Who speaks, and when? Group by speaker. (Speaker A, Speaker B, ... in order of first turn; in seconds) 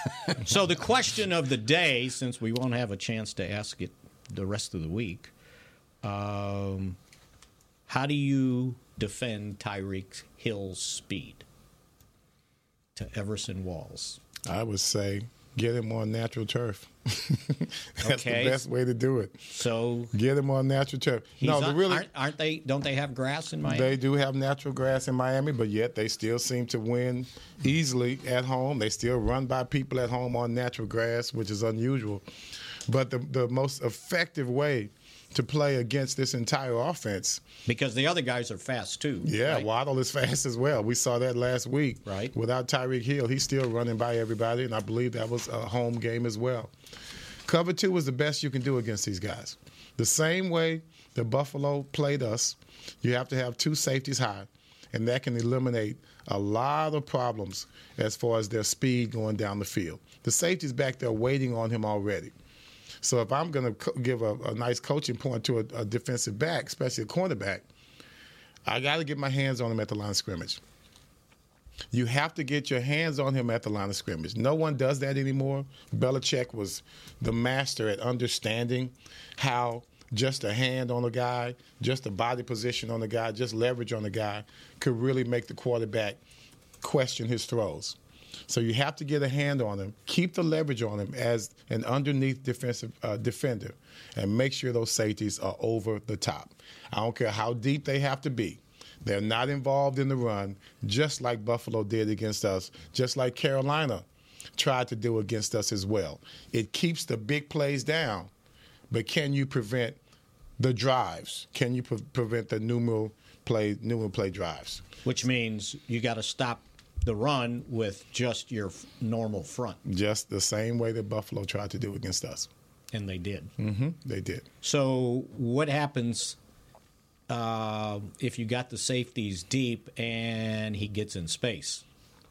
Speaker A: 0.4-5.3, 6.0-7.0, 7.9-11.4, 12.9-14.2, 18.0-18.6, 19.5-20.1, 21.4-23.9, 37.6-39.7, 42.0-42.3, 115.0-119.8, 122.9-123.5, 124.6-126.4, 127.3-131.8
Speaker B: 14.4-19.5, 20.1-22.1, 23.6-32.2, 32.9-37.4, 39.2-46.7, 47.5-62.3, 63.0-67.6, 68.7-70.6, 71.9-86.2, 86.8-88.0, 88.5-108.3, 108.9-110.0, 110.6-114.8, 119.8-122.5, 123.6-124.5